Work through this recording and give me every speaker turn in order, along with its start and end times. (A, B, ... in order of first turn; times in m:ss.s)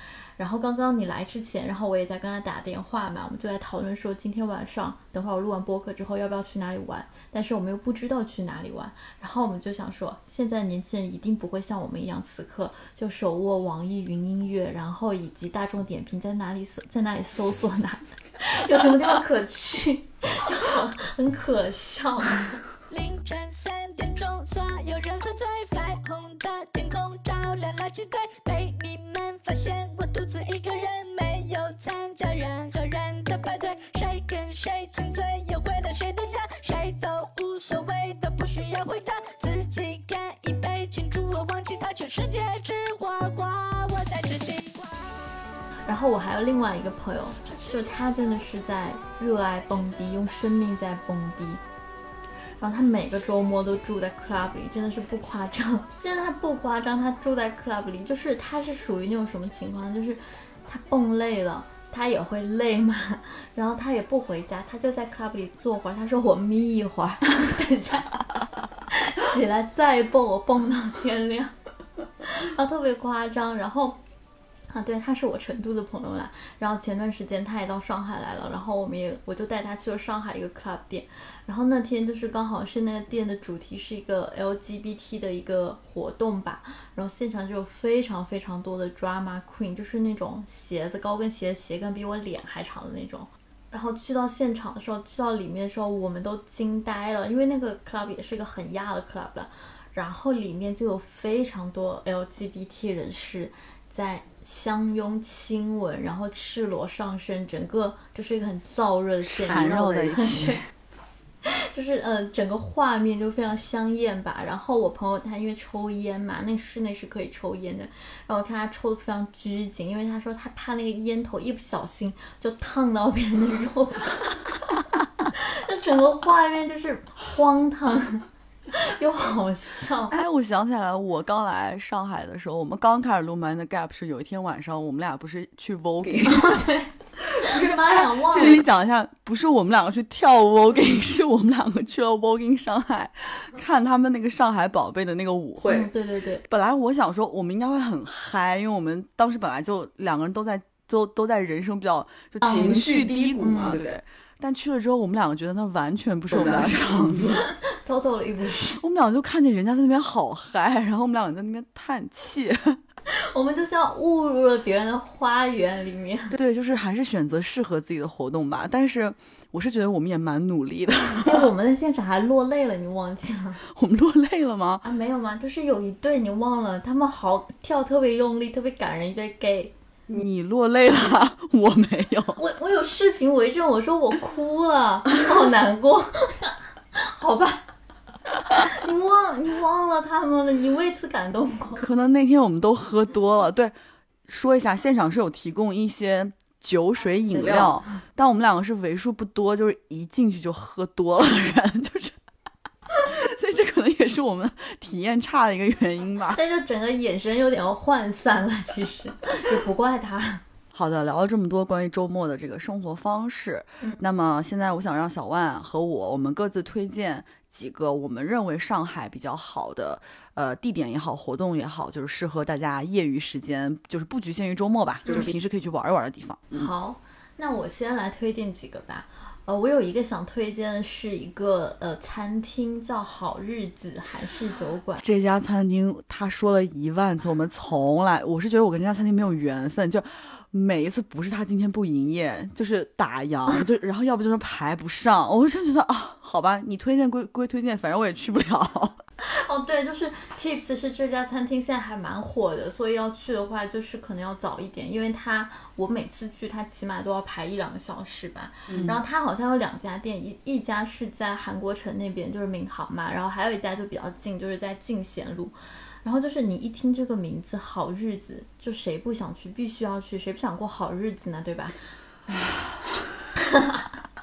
0:00.4-0:22.6 A
0:22.9-0:45.2 B
0:45.9-0:51.6 A
0:52.6-1:08.2 A
1:08.9-1:11.5 A
1:12.3-1:14.0 A
1:14.7-1:50.6 A
1:49.3-1:50.7 C
1:51.4-2:04.5 A
2:05.3-2:10.1 A
2:10.1-2:16.7 C
2:16.2-2:18.6 A
2:17.4-2:25.9 C
2:25.6-2:26.4 A
2:26.4-2:37.4 C
2:32.4-2:33.8 A
2:37.6-2:38.8 A
2:38.8-2:42.8 C
2:43.1-2:46.4 A
2:46.3-2:51.5 C
2:51.2-2:53.6 A
2:53.7-2:54.8 C
2:54.8-2:59.7 A
3:00.1-3:02.4 C
3:02.4-3:07.7 A
3:08.7-3:11.8 A
3:11.8-3:13.7 C
3:14.3-3:22.2 C
3:17.3-3:17.7 A
3:23.1-3:26.4 C
3:26.4-3:30.4 A
3:30.7-3:46.7 C
3:46.5-3:55.0 A
3:55.0-4:09.0 C
4:09.2-4:31.8 A
4:33.4-4:33.9 A